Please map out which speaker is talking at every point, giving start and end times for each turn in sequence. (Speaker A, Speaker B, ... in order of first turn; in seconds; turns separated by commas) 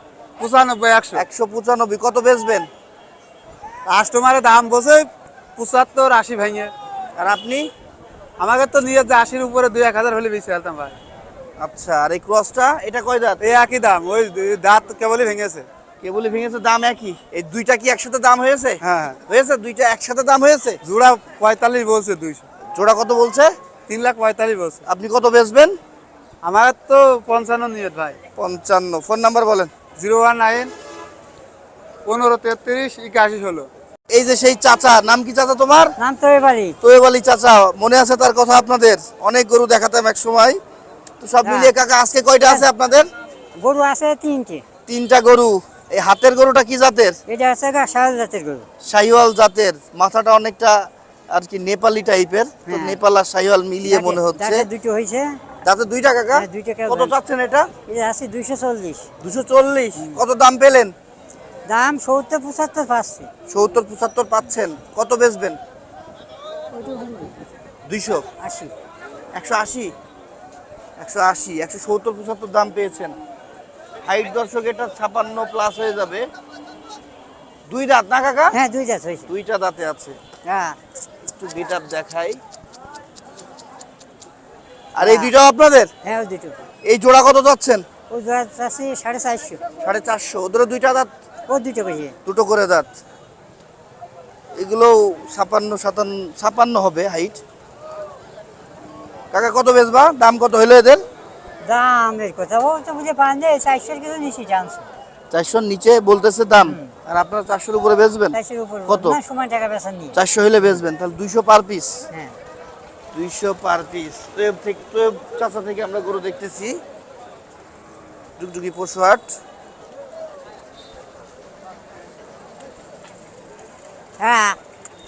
Speaker A: 0.4-1.2, Speaker B: 1.1-2.6, Speaker A: 3.9-5.1, Speaker A: 5.6-6.7, Speaker B: 7.2-7.7, Speaker A: 8.4-10.9, Speaker B: 11.6-13.4, Speaker A: 13.5-15.7, Speaker B: 16.0-20.8, Speaker A: 20.9-22.4, Speaker B: 22.8-23.5, Speaker A: 23.9-24.8, Speaker B: 24.9-25.8, Speaker A: 26.4-28.2, Speaker B: 28.4-29.7, Speaker A: 30.0-30.7, Speaker A: 32.1-33.7, Speaker B: 34.1-36.0, Speaker C: 36.0-36.8, Speaker B: 36.8-40.6, Speaker B: 41.2-43.1, Speaker C: 41.5-41.7, Speaker C: 43.6-44.6, Speaker B: 44.9-47.2, Speaker C: 47.3-48.7, Speaker B: 48.9-50.8, Speaker B: 51.3-54.7, Speaker C: 52.7-53.0, Speaker C: 53.9-55.3, Speaker B: 55.6-57.7, Speaker C: 56.3-57.1, Speaker C: 57.9-59.1, Speaker B: 59.2-60.9, Speaker C: 61.7-63.3, Speaker B: 63.5-65.6, Speaker B: 67.9-68.2, Speaker C: 68.4-68.7, Speaker B: 69.3-69.9, Speaker B: 71.0-73.2, Speaker B: 74.0-76.2, Speaker B: 77.7-78.6, Speaker C: 78.5-79.3, Speaker B: 79.3-80.2, Speaker C: 80.5-80.8, Speaker B: 81.3-82.4, Speaker B: 85.0-85.9, Speaker C: 85.0-85.3, Speaker C: 86.0-86.7, Speaker B: 86.9-87.8, Speaker C: 88.1-89.6, Speaker B: 89.8-91.1, Speaker C: 91.5-92.2, Speaker B: 92.3-92.9, Speaker B: 94.6-97.4, Speaker B: 99.3-101.0, Speaker C: 101.6-104.9, Speaker B: 105.3-109.2, Speaker C: 106.6-106.9, Speaker C: 108.3-110.2, Speaker B: 110.2-112.0, Speaker B: 113.1-116.8, Speaker B: 118.4-119.3, Speaker C: 124.2-124.6